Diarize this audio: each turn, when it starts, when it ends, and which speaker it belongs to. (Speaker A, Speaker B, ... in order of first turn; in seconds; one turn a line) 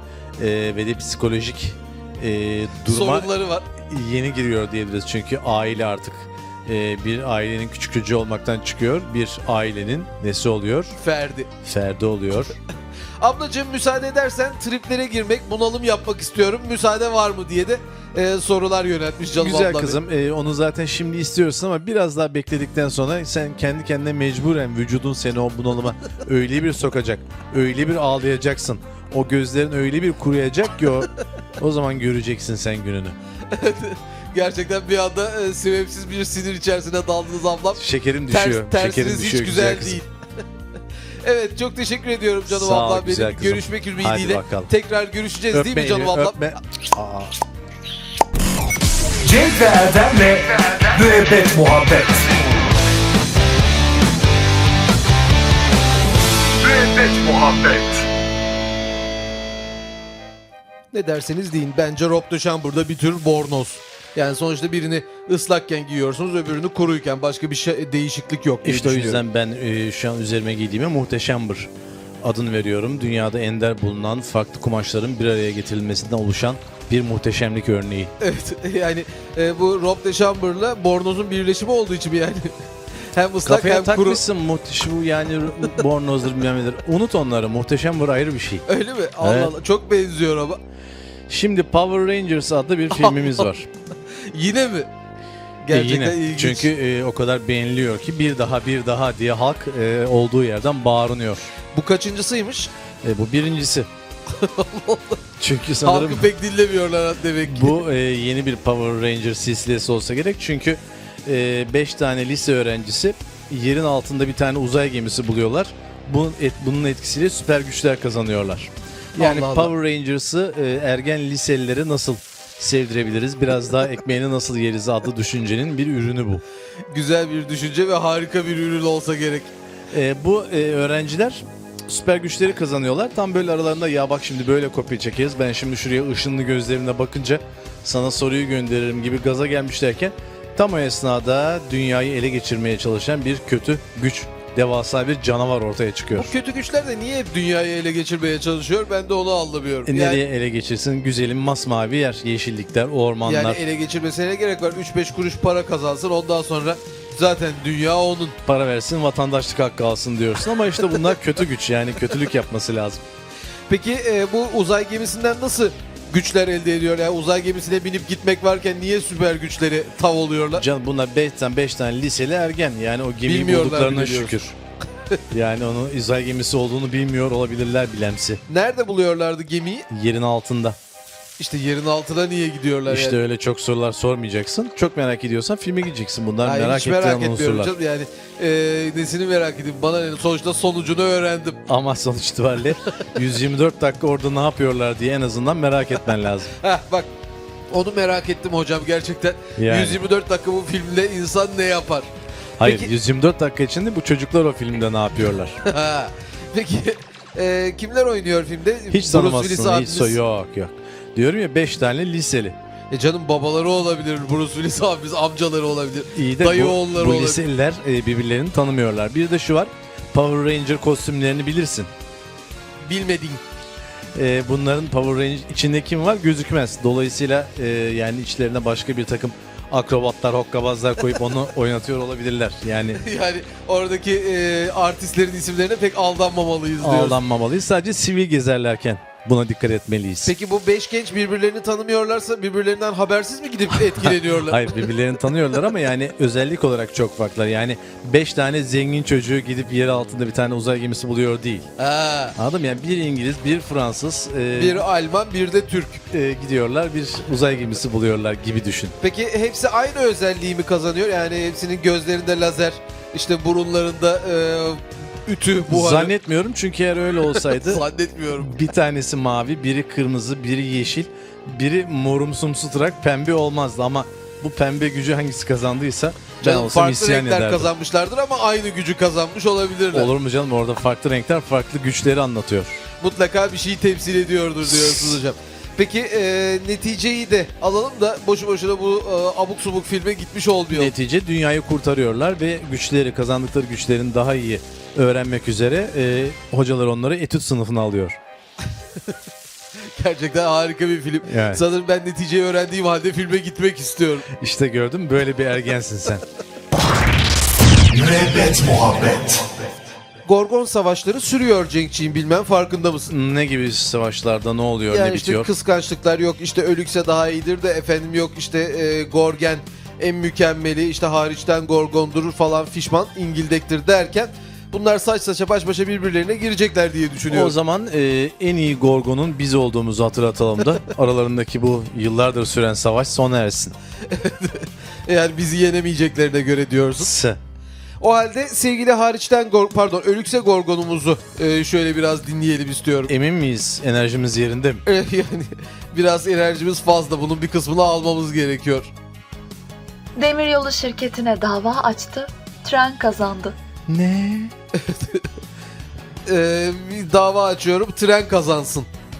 Speaker A: 0.4-3.3
Speaker B: 2.9-3.7
Speaker A: 3.8-10.9
Speaker B: 11.0-11.5
Speaker A: 11.6-12.5
Speaker B: 13.2-20.0
Speaker A: 19.4-33.2
Speaker B: 33.5-40.1
Speaker A: 37.8-40.0
Speaker B: 41.2-46.5
Speaker A: 42.5-44.7
Speaker A: 45.5-47.3
Speaker A: 49.2-50.4
Speaker C: 49.2-52.2
Speaker A: 50.9-52.2
Speaker C: 56.6-57.9
Speaker B: 60.9-69.2
Speaker A: 68.6-71.7
Speaker A: 72.2-78.1
Speaker B: 78.2-82.5
Speaker B: 83.1-84.2
Speaker A: 83.5-88.7
Speaker B: 88.7-90.6
Speaker A: 89.2-89.5
Speaker A: 91.3-93.7
Speaker B: 92.9-93.5
Speaker B: 94.1-94.9
Speaker B: 95.6-96.7
Speaker A: 95.7-101.5
Speaker B: 101.7-102.7
Speaker A: 103.0-103.9
Speaker B: 104.3-105.2
Speaker A: 105.4-106.3
Speaker B: 105.8-107.8
Speaker A: 107.5-126.4
Speaker B: 119.2-119.7
Speaker B: 126.9-129.5
Speaker A: 129.9-146.3
Speaker B: 146.2-150.2
Speaker A: 149.9-153.6
Speaker B: 153.2-158.4
Speaker A: 158.4-163.0
Speaker B: 163.7-170.6
Speaker A: 170.6-174.5
Speaker B: 173.2-174.4
Speaker A: 175.3-178.4
Speaker B: 178.5-179.9
Speaker A: 179.9-180.8
Speaker B: 181.4-183.2
Speaker A: 182.9-187.7
Speaker B: 186.4-191.6
Speaker A: 191.7-196.5
Speaker B: 196.6-197.1
Speaker B: 197.7-202.1
Speaker A: 199.6-200.0
Speaker A: 202.6-205.6
Speaker B: 202.6-202.9
Speaker B: 205.7-210.2
Speaker A: 208.9-212.6
Speaker B: 212.9-217.4
Speaker A: 216.2-221.9
Speaker B: 222.8-223.4
Speaker A: 224.2-233.0
Speaker B: 233.0-237.2
Speaker A: 236.8-240.3
Speaker B: 240.2-244.8
Speaker A: 244.4-251.7
Speaker B: 251.8-252.4
Speaker A: 252.4-254.8
Speaker B: 254.5-256.0
Speaker A: 256.1-258.9
Speaker B: 259.0-266.1
Speaker A: 265.7-267.8
Speaker B: 267.4-268.6
Speaker A: 268.4-277.7
Speaker B: 276.4-280.1
Speaker A: 279.9-282.8
Speaker B: 283.0-290.9
Speaker A: 290.7-298.2
Speaker B: 299.9-304.3
Speaker A: 301.2-301.6
Speaker A: 304.4-306.2
Speaker B: 308.9-309.3
Speaker B: 310.2-313.1
Speaker A: 313.1-315.5
Speaker B: 314.9-327.6
Speaker A: 327.3-333.7
Speaker B: 334.1-337.1
Speaker A: 337.0-337.4
Speaker B: 338.0-343.1
Speaker A: 343.1-344.8
Speaker B: 344.9-348.9
Speaker D: 350.2-353.6
Speaker A: 353.9-354.5
Speaker B: 354.8-355.3
Speaker B: 356.3-358.9